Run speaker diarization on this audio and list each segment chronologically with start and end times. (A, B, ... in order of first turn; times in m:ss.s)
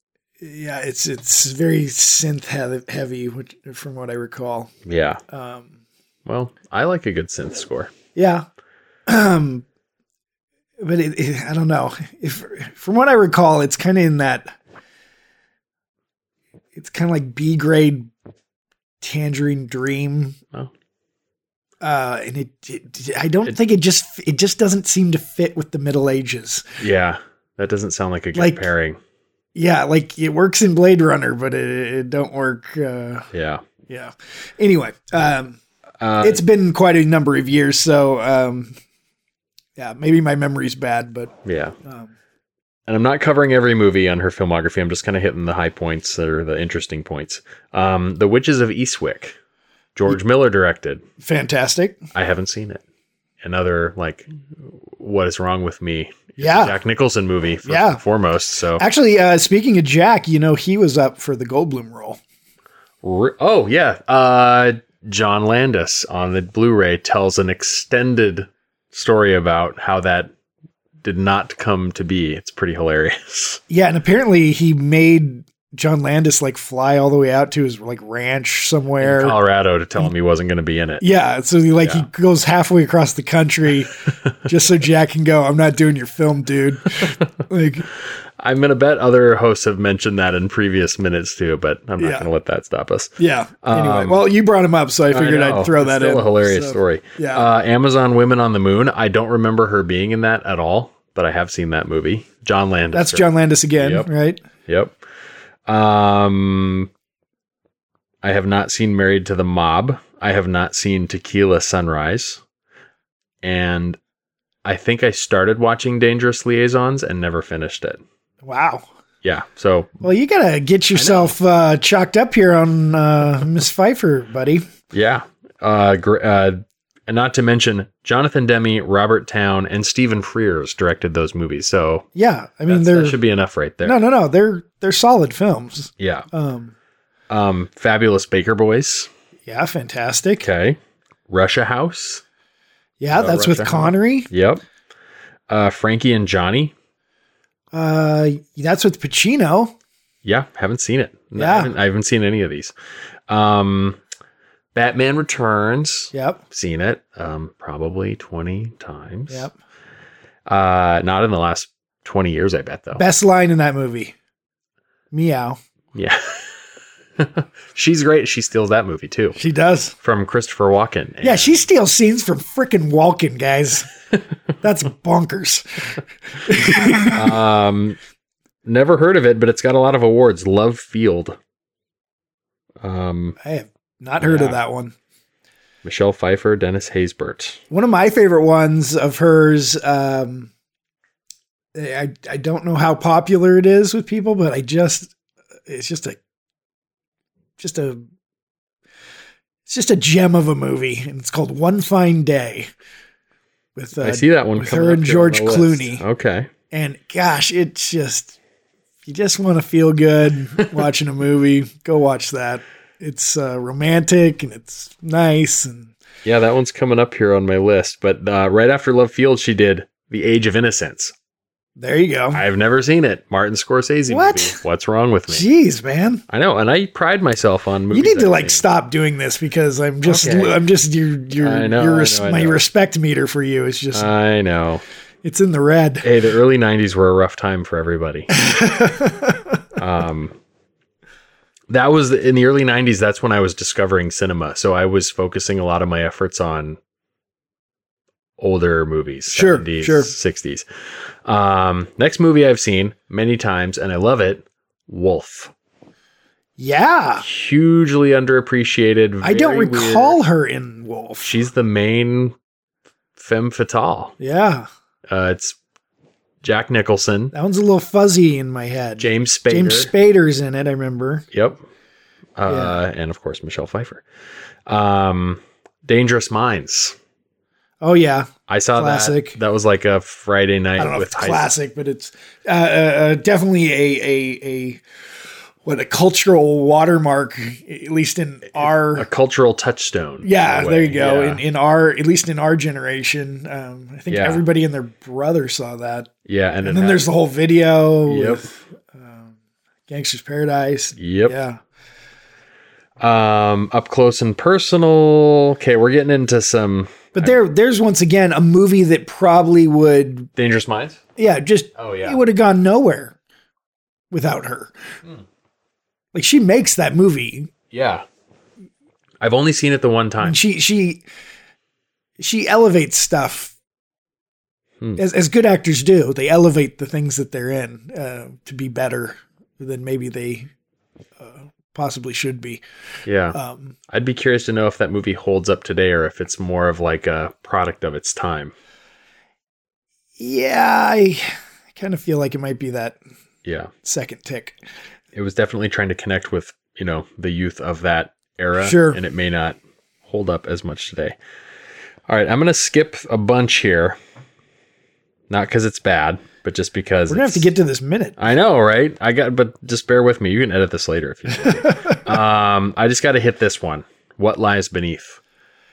0:00.4-0:04.7 A
0:04.9-0:05.2 B
0:05.3-0:05.7 A
0:06.3-0:07.9 B
0:08.2-0:08.4 A
0:09.1-0:09.7 A
0:10.8-0:14.6 A
0:16.8-0:18.1 A
0:19.0-0:20.4 A
0:21.8-0:26.6 A
0:26.8-0:29.0 B
0:28.4-0:28.7 A
0:29.6-0:33.3 A
0:33.3-0:33.6 B
0:33.9-0:35.6 A
0:36.0-0:36.4 B
0:36.2-0:38.7 A
0:39.8-0:41.3 A
0:41.4-0:41.8 B
0:41.8-0:42.1 A
0:42.9-0:49.4 B
0:50.0-0:51.0 B
0:51.2-0:52.0 A
0:52.1-0:52.8 B
0:53.4-0:58.8 B
0:56.4-0:56.8 A
0:57.6-0:58.0 A
0:58.8-1:02.2 A
1:03.0-1:10.3 B
1:11.0-1:13.6 B
1:13.7-1:19.4 A
1:19.0-1:21.0 B
1:21.0-1:27.9 A
1:21.8-1:22.1 B
1:28.4-1:34.2 B
1:32.0-1:32.3 A
1:33.2-1:37.5 A
1:35.1-1:44.1 B
1:42.9-1:44.4 A
1:44.7-1:45.0 B
1:45.7-1:46.9 B
1:48.2-1:52.4 B
1:53.4-1:54.0 B
1:54.6-1:58.0 B
1:58.4-1:58.8 A
1:59.2-2:00.0 B
2:00.0-2:04.6 A
2:01.0-2:01.4 B
2:04.9-2:12.1 B
2:12.2-2:13.2 A
2:12.7-2:14.0 B
2:13.8-2:16.7 A
2:16.0-2:16.3 B
2:17.3-2:19.1 B
2:19.5-2:20.5 A
2:20.4-2:20.8 B
2:21.3-2:22.2 B
2:23.0-2:24.3 A
2:23.1-2:24.6 B
2:25.5-2:26.7 B
2:27.7-2:29.7 A
2:30.2-2:32.7 B
2:31.4-2:31.7 A
2:33.3-2:34.0 B
2:34.8-2:39.5 B
2:36.1-2:36.4 A
2:40.5-2:43.0 B
2:43.0-2:44.1 A
2:45.1-2:45.6 A
2:46.0-2:46.6 B
2:47.2-2:49.4 B
2:49.4-2:49.9 A
2:50.0-2:51.6 B
2:51.2-2:53.9 A
2:54.6-2:55.6 A
2:56.4-2:57.3 A
2:57.0-2:58.0 B
2:58.6-3:01.4 B
3:02.8-3:03.4 B
3:03.4-3:04.9 A
3:04.2-3:04.6 B
3:05.8-3:07.6 B
3:07.7-3:10.5 A
3:11.8-3:15.1 A
3:15.7-3:16.2 A
3:17.6-3:18.0 A
3:19.7-3:22.7 A
3:23.8-3:26.0 A
3:24.0-3:26.5 B
3:26.7-3:28.4 A
3:29.0-3:35.9 A
3:36.2-3:41.1 B
3:41.8-3:42.4 A
3:42.3-3:45.5 B
3:44.1-3:44.6 A
3:45.3-3:46.2 A
3:46.3-3:48.6 B
3:47.9-3:54.1 A
3:50.0-3:50.6 B
3:51.4-3:52.6 B
3:53.9-3:54.8 B
3:55.2-3:56.1 A
3:56.0-3:58.3 B
3:58.4-3:59.4 A
3:59.8-4:00.4 B
4:01.7-4:06.8 B
4:08.4-4:10.7 B
4:09.3-4:10.1 A
4:11.3-4:15.5 B
4:16.6-4:17.2 A
4:17.2-4:20.2 B
4:19.2-4:21.3 A
4:21.2-4:22.3 B
4:23.2-4:24.2 B
4:24.2-4:24.7 A
4:25.1-4:25.6 B
4:26.4-4:27.3 B
4:27.3-4:31.3 A
4:29.0-4:29.9 B
4:31.3-4:31.6 B
4:32.4-4:34.0 B
4:32.5-4:32.8 A
4:34.7-4:37.0 B
4:37.8-4:39.4 A
4:38.5-4:41.5 B
4:40.8-4:44.8 A
4:45.6-4:49.1 A
4:48.6-4:51.4 B
4:50.2-4:56.1 A
4:54.1-4:54.4 B
4:56.3-4:57.1 B
4:56.6-4:59.3 A
4:58.1-4:58.5 B
4:59.9-5:01.6 A
5:01.0-5:01.4 B
5:03.0-5:07.3 B
5:07.1-5:10.3 A
5:10.4-5:11.0 B
5:11.2-5:13.2 A
5:11.8-5:12.2 B
5:14.1-5:14.7 A
5:16.1-5:17.5 A
5:17.7-5:18.0 B
5:19.2-5:20.4 B
5:20.2-5:21.0 A
5:22.2-5:23.5 A
5:25.0-5:30.5 A
5:31.2-5:32.6 A
5:33.1-5:33.4 B
5:33.3-5:33.8 A
5:33.9-5:38.5 B
5:40.2-5:43.0 A
5:43.4-5:43.7 B
5:43.8-5:44.6 A
5:45.1-5:51.2 B
5:48.6-5:49.0 A
5:52.1-5:54.0 B
5:55.3-5:57.5 B
5:57.1-5:58.2 A
5:58.2-6:05.2 B